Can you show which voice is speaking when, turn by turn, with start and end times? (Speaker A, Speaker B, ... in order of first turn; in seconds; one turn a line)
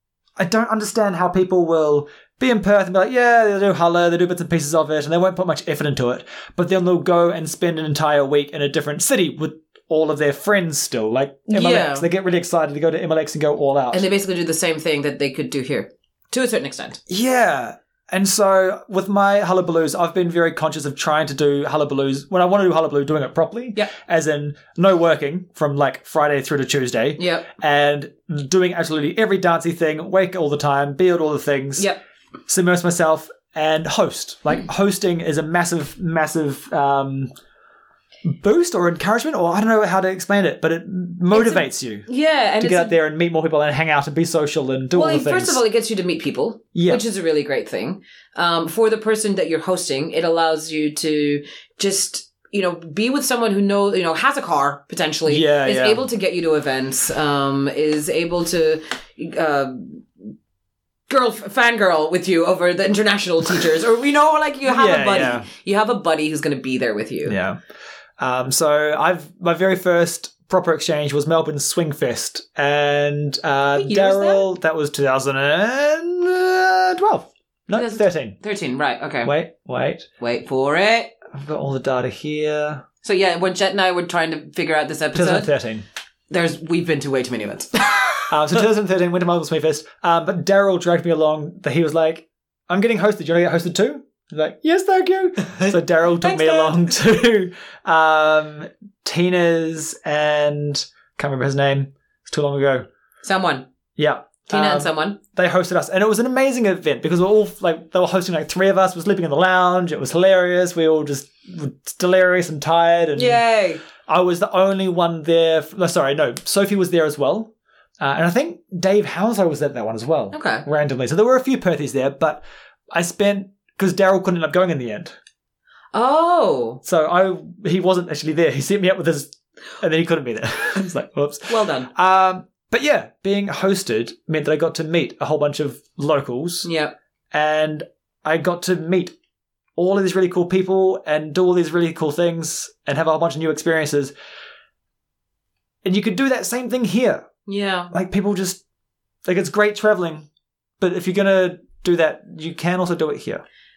Speaker A: 0.4-14.1
Speaker B: 11.5-12.1
Speaker B: 13.9-17.0
Speaker A: 17.1-31.9
Speaker B: 27.2-27.5
Speaker A: 32.5-37.3
Speaker A: 38.3-42.1
Speaker B: 41.3-42.9
Speaker A: 42.6-45.6
Speaker B: 44.9-60.1
Speaker A: 46.8-47.0
Speaker A: 55.3-56.1
Speaker B: 61.1-67.4
Speaker A: 64.7-65.5
Speaker A: 67.3-67.6
Speaker A: 68.2-78.4
Speaker B: 73.8-74.5
Speaker B: 77.7-79.3
Speaker A: 79.2-80.1
Speaker B: 80.2-81.1
Speaker A: 81.3-82.8
Speaker B: 83.0-85.5
Speaker A: 85.1-85.9
Speaker B: 86.3-88.2
Speaker A: 88.3-102.9
Speaker B: 96.2-96.8
Speaker B: 103.2-103.7
Speaker A: 104.0-113.4
Speaker B: 104.5-105.2
Speaker B: 113.2-113.8
Speaker A: 114.0-125.2
Speaker B: 120.3-120.7
Speaker B: 125.9-126.8
Speaker A: 126.8-136.7
Speaker B: 131.5-131.9
Speaker B: 136.7-136.9
Speaker A: 137.3-139.1
Speaker A: 139.8-144.1
Speaker A: 145.8-147.3
Speaker B: 147.5-147.9
Speaker A: 147.9-148.6
Speaker A: 149.3-150.3
Speaker A: 150.8-153.4